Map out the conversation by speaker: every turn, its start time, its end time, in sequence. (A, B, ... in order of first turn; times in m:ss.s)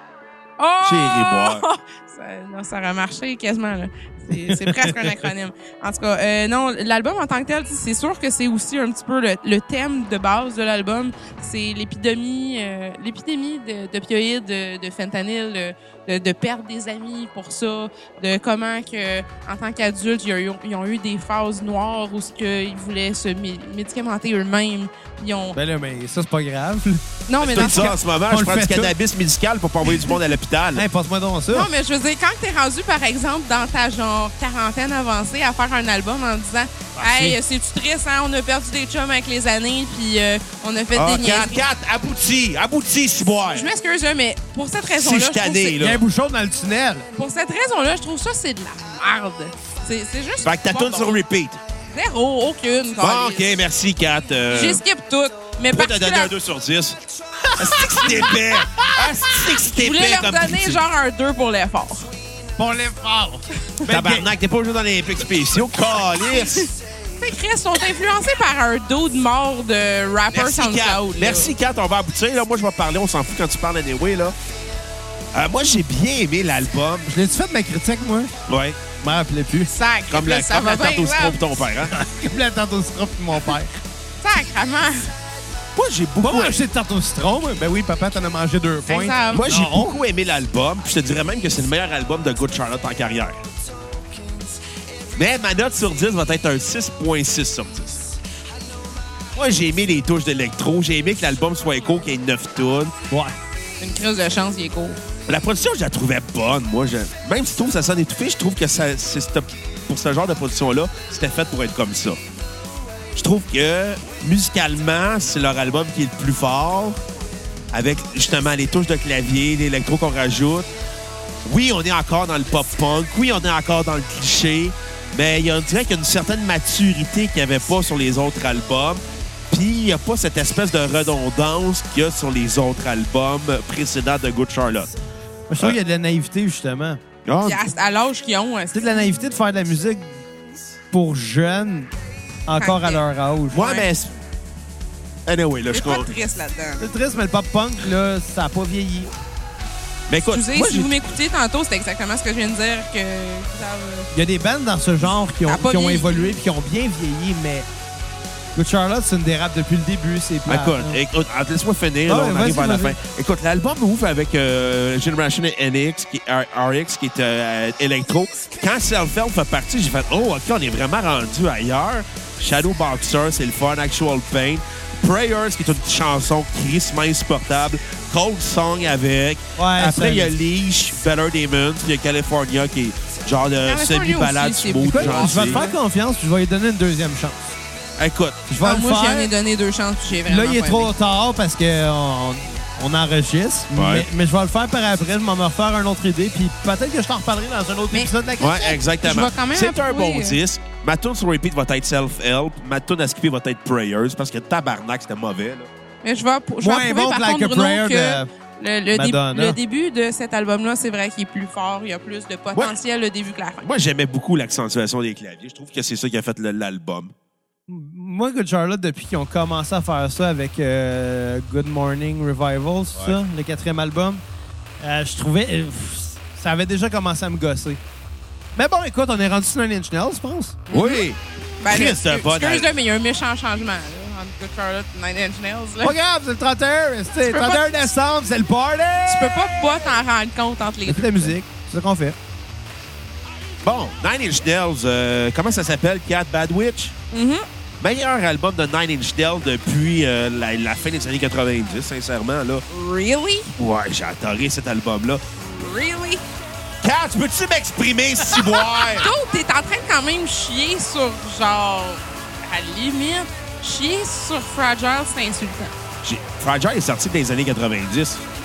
0:00.6-0:25.6 A
0:00.8-0:01.6 B
0:04.4-0:05.1 C
0:25.5-0:28.9 C
0:27.3-0:28.0 A
0:27.4-0:30.8 B
0:30.7-0:31.7 C
0:31.5-0:41.6 A
0:37.0-0:37.4 C
0:40.9-0:43.7 B
0:43.5-0:45.8 A
0:44.9-0:46.0 B
0:45.8-0:47.1 C
0:47.2-0:51.2 A
0:50.4-0:51.6 B
0:51.9-0:53.5 A
0:53.0-0:54.8 B
0:54.5-0:56.3 A
0:55.7-0:57.0 B
0:57.4-0:59.1 C
0:57.6-1:00.8 B
0:59.6-1:02.1 A
1:02.6-1:04.3 C
1:03.9-1:06.7 B
1:06.2-1:11.5 A
1:10.3-1:14.3 B
1:15.3-1:17.1 B
1:17.1-1:18.4 C
1:18.5-1:18.8 B
1:19.0-1:19.7 C
1:19.7-1:21.5 A
1:20.1-1:22.0 B
1:21.9-1:23.7 C
1:24.2-1:25.1 A
1:25.8-1:26.6 B
1:26.2-1:29.9 C
1:28.9-1:29.5 A
1:29.3-1:33.4 B
1:35.1-1:38.1 B
1:39.3-1:43.0 B
1:43.1-1:43.4 C
1:43.8-1:45.0 A
1:45.3-1:52.2 B
1:53.1-1:57.0 B
1:57.7-2:00.7 B
2:01.4-2:14.9 B
2:15.5-2:17.0 C
2:17.2-2:17.6 B
2:17.4-2:19.1 A
2:18.7-2:20.2 C
2:20.9-2:21.9 C
2:22.5-2:23.6 C
2:22.6-2:23.0 A
2:23.5-2:24.1 B
2:23.5-2:23.9 A
2:25.2-2:26.1 B
2:25.7-2:26.8 A
2:26.8-2:29.1 C
2:30.1-2:31.0 B
2:30.3-2:34.1 A
2:34.1-2:37.7 C
2:35.4-2:36.4 A
2:38.5-2:41.0 C
2:40.5-3:05.6 B
2:42.1-2:43.0 C
2:59.6-3:00.3 C
3:03.6-3:05.8 A
3:04.9-3:07.4 C
3:08.0-3:08.4 B
3:08.5-3:09.3 C
3:08.6-3:10.9 A
3:10.2-3:18.8 C
3:13.7-3:14.1 B
3:18.4-3:25.7 B
3:19.0-3:20.4 A
3:26.0-3:33.6 A
3:26.6-3:28.3 C
3:28.9-3:29.6 C
3:33.6-3:37.1 B
3:37.7-3:44.2 C
3:44.8-3:47.8 C
3:48.6-3:50.6 C
3:50.7-3:51.0 A
3:50.7-3:52.7 B
3:51.6-3:56.0 A
3:55.8-3:59.6 C
3:57.2-3:57.8 A
3:59.1-4:01.3 A
4:00.8-4:02.2 C
4:03.6-4:06.9 B
4:07.1-4:07.4 A
4:07.8-4:12.6 B
4:12.7-4:13.5 A
4:13.6-4:15.2 B
4:15.5-4:16.2 A
4:16.8-4:19.1 B
4:18.3-4:25.7 A
4:26.0-4:28.2 B